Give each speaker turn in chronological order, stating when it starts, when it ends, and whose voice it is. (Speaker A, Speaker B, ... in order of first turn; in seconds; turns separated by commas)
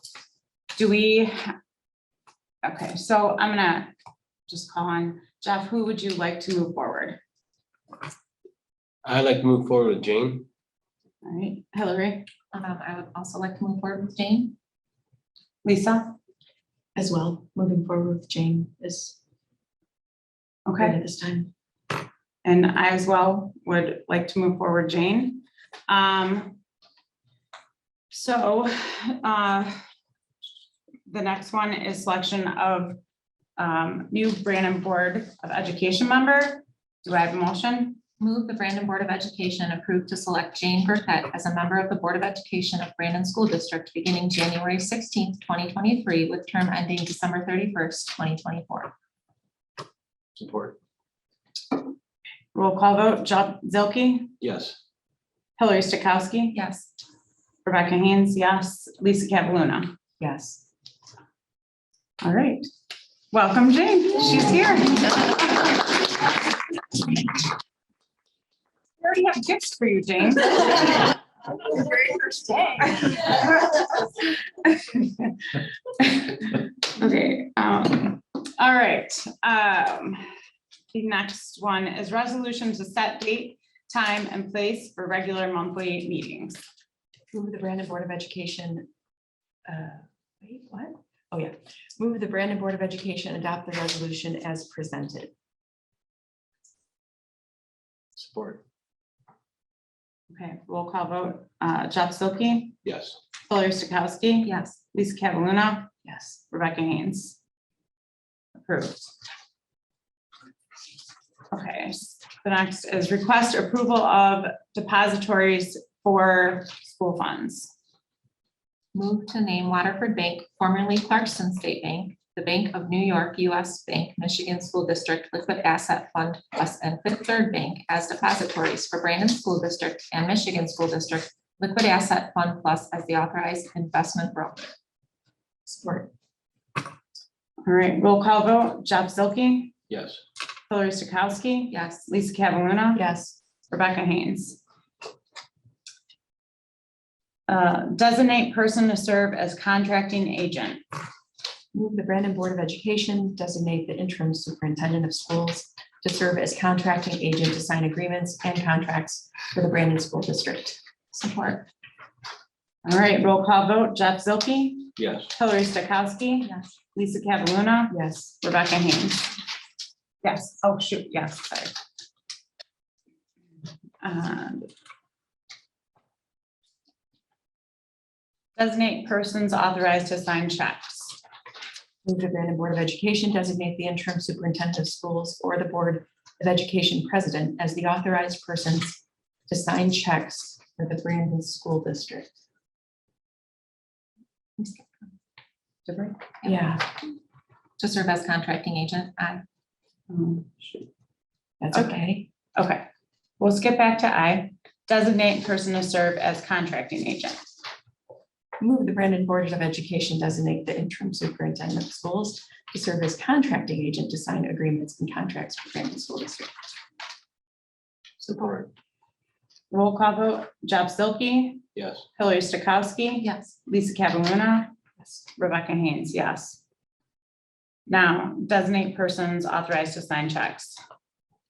Speaker A: 0.7-1.5, Speaker A: 2.6-3.9, Speaker A: 4.5-7.2, Speaker B: 9.0-10.4, Speaker A: 11.2-12.3, Speaker C: 12.5-14.5, Speaker A: 15.6-16.1, Speaker D: 16.9-19.1, Speaker A: 20.6-20.9, Speaker D: 20.8-21.5, Speaker A: 22.4-26.6, Speaker A: 28.1-29.8, Speaker A: 31.1-33.0, Speaker A: 33.6-38.0, Speaker C: 38.2-48.9, Speaker B: 50.4-50.8, Speaker A: 52.5-54.3, Speaker B: 54.4-54.8, Speaker A: 55.6-56.6, Speaker C: 56.5-56.9, Speaker A: 57.6-59.9, Speaker D: 60.2-60.6, Speaker A: 62.2-62.7, Speaker A: 63.3-65.5, Speaker A: 69.0-74.1, Speaker A: 74.6-75.4, Speaker A: 76.0-80.2, Speaker A: 80.9-86.6, Speaker D: 87.3-88.9, Speaker D: 89.7-95.3, Speaker B: 98.2-98.6, Speaker A: 100.3-102.8, Speaker B: 102.8-103.2, Speaker A: 103.5-105.9, Speaker C: 104.4-104.8, Speaker D: 106.0-106.4, Speaker A: 106.5-107.4, Speaker A: 108.6-109.1, Speaker A: 111.5-117.7, Speaker C: 118.9-134.7, Speaker D: 135.7-136.1, Speaker A: 137.6-139.7, Speaker B: 139.9-140.2, Speaker A: 140.7-143.0, Speaker C: 141.7-142.1, Speaker D: 142.9-143.4, Speaker A: 143.7-144.6, Speaker A: 147.5-150.8, Speaker D: 151.7-160.8, Speaker C: 161.1-161.6, Speaker A: 162.8-169.3, Speaker B: 165.0-165.3, Speaker D: 167.9-168.3, Speaker A: 170.2-171.7, Speaker A: 174.0-174.7, Speaker A: 178.6-181.2, Speaker D: 182.0-192.3, Speaker C: 194.6-195.1, Speaker A: 195.9-196.2, Speaker D: 196.4-196.9, Speaker C: 197.8-199.4, Speaker A: 200.1-200.8, Speaker D: 201.6-202.3, Speaker A: 201.7-202.0, Speaker A: 202.5-202.8, Speaker A: 203.4-207.4, Speaker D: 208.6-216.5, Speaker B: 218.2-218.7, Speaker A: 219.7-221.6, Speaker B: 221.7-222.0, Speaker A: 222.2-224.7, Speaker C: 223.2-223.5, Speaker A: 225.4-226.6, Speaker A: 227.9-230.8